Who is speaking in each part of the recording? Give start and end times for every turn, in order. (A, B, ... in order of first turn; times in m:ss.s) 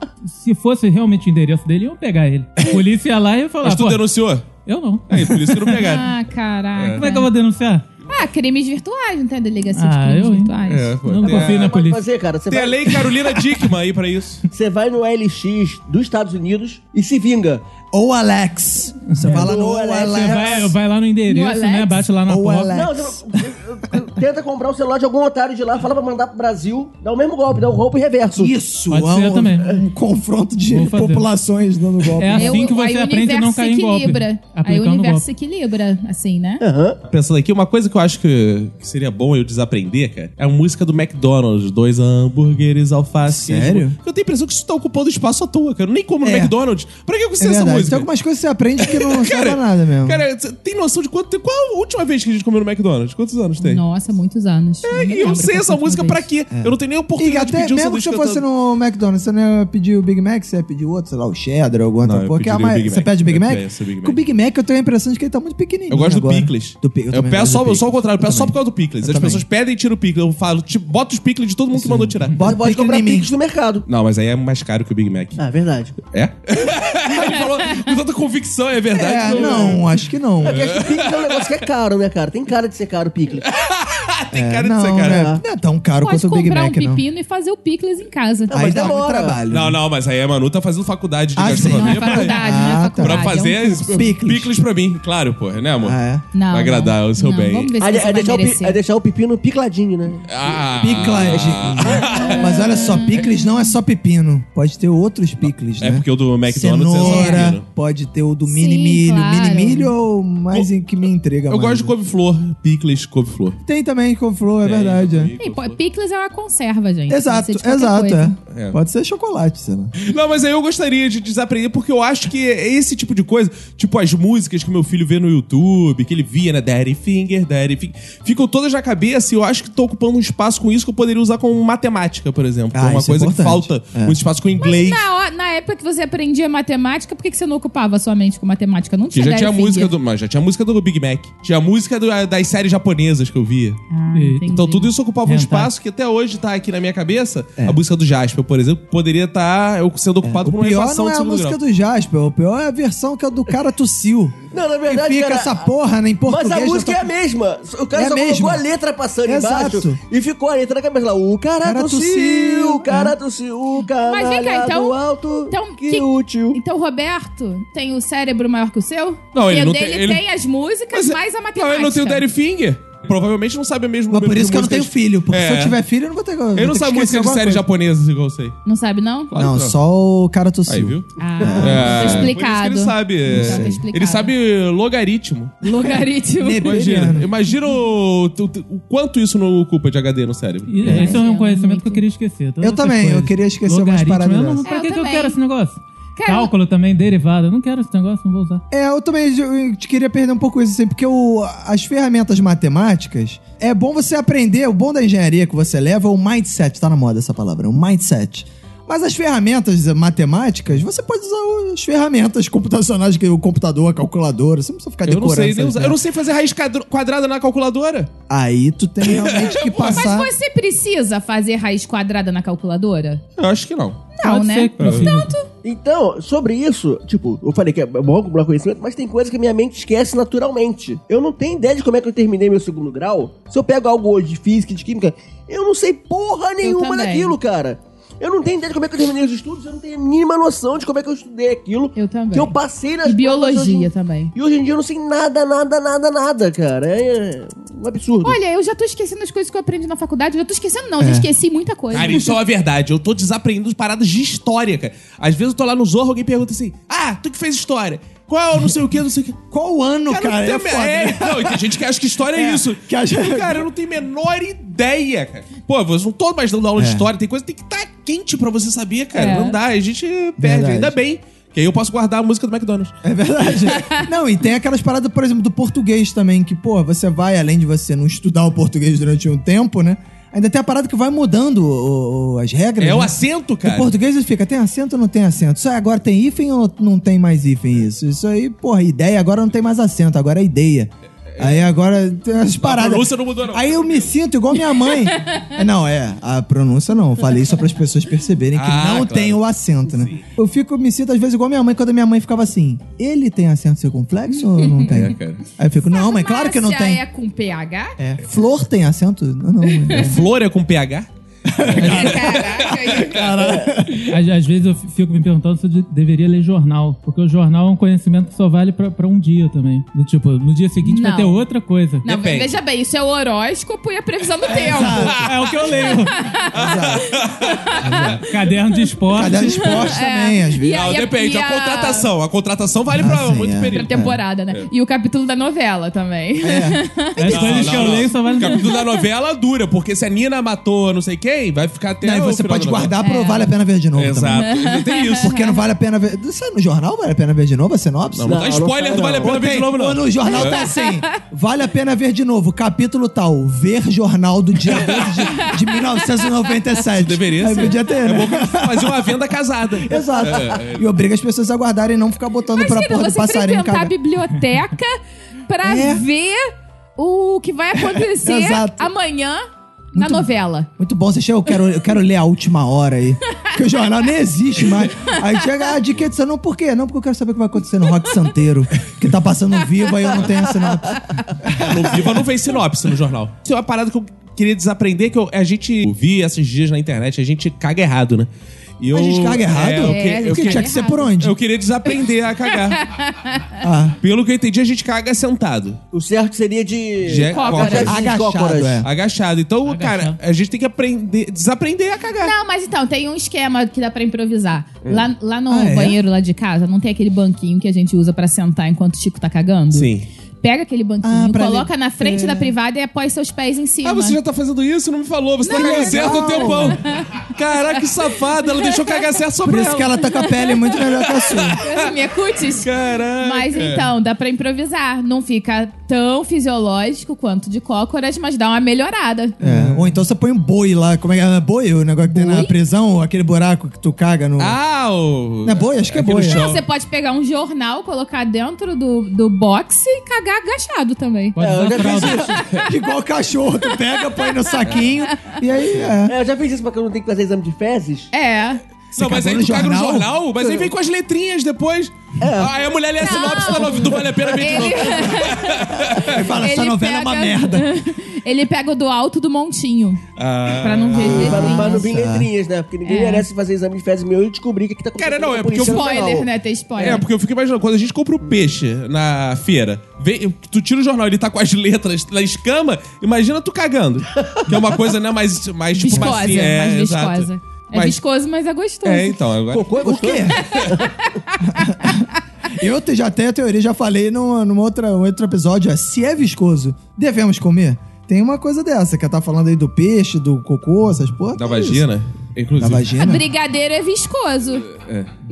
0:00.2-0:04.0 A
0:03.6-0:04.5 B
0:04.6-0:05.9 A
0:05.1-0:06.1 B
0:05.8-0:07.3 C
0:07.0-0:07.9 A
0:08.1-0:11.0 C
0:09.8-0:12.1 A
0:10.7-0:11.8 B
0:11.2-0:13.1 D
0:12.5-0:14.5 B
0:14.5-0:17.6 D
0:17.9-0:20.7 E
0:19.1-0:22.8 A
0:19.3-0:20.7 D
0:21.3-0:22.0 C
0:22.3-0:23.5 E
0:22.7-0:28.6 D
0:28.4-0:32.7 E
0:28.9-0:29.7 A
0:30.7-0:31.3 A
0:32.2-0:35.2 A
0:32.4-0:36.6 C
0:36.6-0:37.0 D
0:37.1-0:48.1 B
0:43.3-0:44.0 E
0:46.2-0:46.5 E
0:47.4-0:50.2 E
0:48.8-0:53.8 B
0:53.6-0:56.2 C
0:54.8-0:58.4 B
0:56.5-1:09.4 E
1:02.0-1:04.2 B
1:05.9-1:12.4 B
1:11.7-1:13.3 E
1:12.4-1:13.8 D
1:13.9-1:15.4 B
1:15.4-1:16.0 D
1:16.1-1:19.8 B
1:17.2-1:17.7 C
1:19.0-1:19.8 D
1:19.0-1:20.8 E
1:20.4-1:21.6 B
1:20.4-1:23.5 D
1:23.5-1:25.3 B
1:24.3-1:27.0 E
1:25.0-1:25.4 D
1:26.0-1:28.9 C
1:28.5-1:29.4 D
1:28.5-1:29.8 E
1:29.5-1:36.0 B
1:31.4-1:34.6 E
1:31.7-1:34.1 C
1:35.8-1:36.2 E
1:36.3-1:38.8 C
1:36.5-1:37.7 B
1:37.8-1:41.6 D
1:40.3-1:42.6 B
1:40.8-1:51.9 E
1:42.1-1:43.5 C
1:45.8-1:47.6 B
1:47.0-1:47.5 C
1:48.5-1:49.9 C
1:51.5-1:53.6 B
1:53.6-1:55.3 E
1:54.6-1:55.8 B
1:55.4-1:58.3 C
1:57.1-1:59.9 E
1:58.5-1:58.8 B
2:00.0-2:15.0 B
2:12.7-2:14.2 E
2:14.6-2:19.9 C
2:19.1-2:23.8 B
2:23.9-2:24.9 C
2:24.1-2:24.5 A
2:24.5-2:31.6 B
2:25.3-2:25.7 A
2:30.2-2:37.1 E
2:34.5-2:35.6 D
2:36.3-2:46.6 D
2:37.9-2:38.6 E
2:39.2-2:40.0 E
2:41.6-2:43.2 E
2:44.0-2:45.0 C
2:45.5-2:52.2 C
2:49.3-2:50.2 B
2:50.9-2:55.8 B
2:54.1-2:57.6 E
2:56.6-2:58.6 B
2:58.6-2:59.3 C
2:59.3-2:59.8 B
2:59.4-3:02.3 E
3:00.7-3:01.1 B
3:01.2-3:04.3 C
3:01.6-3:05.7 B
3:03.3-3:03.8 E
3:05.6-3:06.9 C
3:06.4-3:07.3 E
3:06.6-3:11.2 B
3:10.7-3:18.6 A
3:10.9-3:12.0 C
3:12.6-3:14.6 E
3:14.6-3:15.4 C
3:16.2-3:16.5 C
3:18.7-3:36.0 E
3:35.0-3:38.1 B
3:38.3-3:40.3 E
3:39.1-3:40.1 B
3:39.8-3:43.2 C
3:43.4-3:44.1 B
3:44.2-3:45.5 C
3:44.2-3:45.3 A
3:44.8-3:45.1 B
3:45.6-4:08.4 D
3:56.6-3:57.4 C
4:02.0-4:04.3 C
4:08.2-4:12.4 C
4:11.0-4:11.3 E
4:11.9-4:19.4 B
4:19.5-4:23.7 E
4:20.1-4:32.9 B
4:26.8-4:27.1 E
4:29.1-4:29.6 C
4:30.4-4:31.0 E
4:33.0-5:07.0 E
4:33.7-4:34.0 C
4:42.8-4:43.9 B
4:51.4-4:51.7 B
4:52.6-4:54.1 B
4:58.6-5:00.2 B
5:04.6-5:04.9 C
5:04.9-5:05.4 B
5:05.9-5:08.0 C
5:08.0-5:10.3 E
5:09.9-5:13.6 B
5:11.5-5:14.2 E
5:11.8-5:13.3 C
5:14.0-5:22.1 A
5:20.8-5:21.4 C
5:22.0-5:25.2 C
5:22.1-5:22.5 B
5:24.5-5:25.3 E
5:24.7-5:25.3 B
5:25.2-5:26.3 A
5:25.7-5:26.7 C
5:26.5-5:28.2 B
5:26.5-5:27.1 E
5:27.3-5:27.9 C
5:27.8-5:28.2 E
5:28.2-5:29.9 A
5:29.1-5:31.0 E
5:29.2-5:32.1 C
5:30.7-5:34.7 B
5:32.9-5:34.2 E
5:33.7-5:39.0 C
5:36.4-5:36.8 E
5:37.2-5:38.7 A
5:37.3-5:43.0 B
5:42.0-5:44.6 E
5:43.0-5:43.5 C
5:44.0-5:45.4 B
5:44.4-5:45.6 C
5:45.2-5:48.5 E
5:48.1-5:50.6 B
5:48.3-5:49.4 D
5:49.2-5:59.2 E
5:50.3-5:51.2 C
5:55.4-5:56.0 C
5:56.9-6:00.9 B
5:59.8-6:04.0 E
6:02.6-6:06.4 C
6:05.6-6:06.1 E
6:07.0-6:10.7 C
6:07.7-6:08.9 E
6:10.0-6:22.2 E
6:15.0-6:15.7 C
6:21.6-6:28.3 B
6:28.8-6:32.8 B
6:28.9-6:31.4 E
6:29.8-6:31.1 C
6:32.5-6:33.5 C
6:33.6-6:34.0 E
6:34.0-6:35.8 B
6:35.9-6:38.8 D
6:37.0-6:38.0 B
6:37.3-6:38.0 C
6:37.6-6:38.9 E
6:38.8-6:42.3 B
6:39.6-6:40.2 A
6:42.2-6:54.2 C
6:45.5-6:46.0 E
6:49.7-6:50.1 B
6:51.0-6:52.5 E
6:53.8-7:00.0 B
6:55.4-6:57.3 C
6:55.5-6:56.8 E
6:58.5-6:59.0 C
6:59.4-7:01.6 E
7:00.0-7:00.6 C
7:01.1-7:01.9 B
7:01.6-7:02.7 C
7:02.5-7:03.9 B
7:03.2-7:09.4 C
7:09.4-7:14.6 E
7:12.0-7:12.5 C
7:14.4-7:16.6 B
7:15.4-7:16.5 E
7:16.3-7:21.4 C
7:21.4-7:22.3 A
7:21.4-7:22.4 D
7:22.1-7:22.8 C
7:22.6-7:26.2 E
7:23.6-7:25.4 C
7:26.1-7:28.1 D
7:28.1-7:28.6 C
7:28.9-7:36.2 B
7:29.0-7:30.1 E
7:30.4-7:30.7 D
7:32.2-7:32.5 D
7:33.0-7:40.0 C
7:33.4-7:35.2 D
7:36.0-7:37.7 E
7:40.2-7:41.7 B
7:40.6-7:41.9 C
7:41.0-7:46.3 D
7:41.5-7:42.3 E
7:42.8-7:43.3 C
7:45.0-7:46.2 B
7:45.6-7:47.0 C
7:46.8-7:58.0 B
7:54.2-7:54.8 D
7:55.7-7:59.2 C
7:55.9-7:56.3 E
7:58.8-8:00.7 B
7:59.5-8:00.9 D
7:59.8-8:00.6 E
8:00.6-8:02.0 C
8:01.4-8:11.8 E
8:11.4-8:13.0 B
8:12.6-8:13.2 E
8:13.0-8:14.7 C
8:14.7-8:15.1 B